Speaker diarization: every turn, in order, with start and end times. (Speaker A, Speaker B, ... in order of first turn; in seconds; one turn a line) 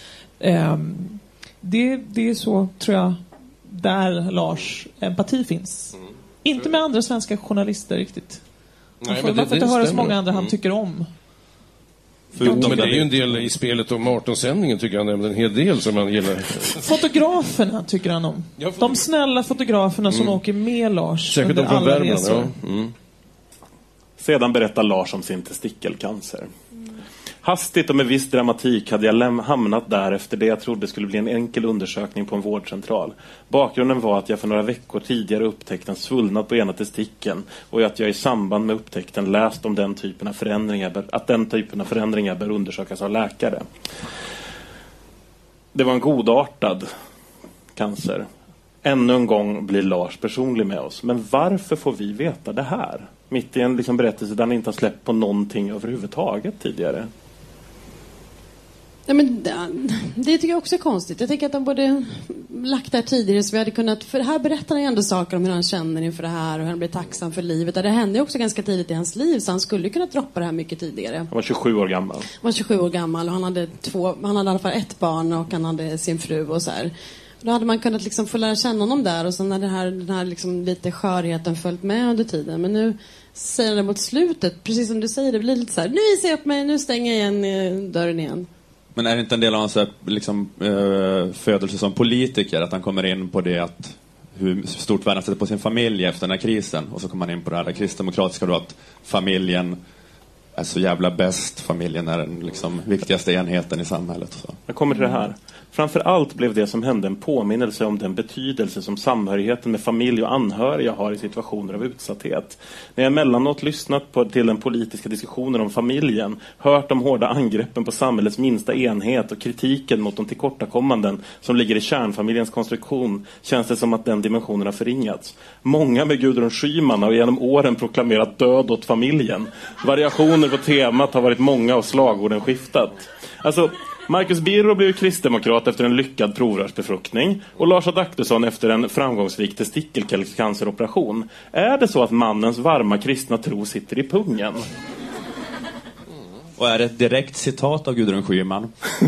Speaker A: 0.4-8.4
Speaker B: 9.0-10.5
Speaker A: 9.1-11.1
Speaker C: 12.3-13.2
Speaker A: 12.4-13.0
Speaker B: 12.4-16.8
Speaker A: 16.8-22.5
Speaker B: 18.6-19.0
Speaker B: 20.1-20.4
Speaker B: 21.3-22.9
Speaker D: 24.2-26.5
Speaker D: 27.4-43.6
Speaker D: 45.7-46.9
Speaker D: 47.8-48.3
Speaker D: 48.8-57.1
Speaker E: 59.1-71.3
Speaker D: 71.3-72.3
Speaker E: 72.4-88.5
Speaker C: 88.9-99.8
Speaker C: 100.5-104.6
Speaker D: 104.7-144.7
Speaker A: 104.9-105.2
Speaker C: 146.6-148.7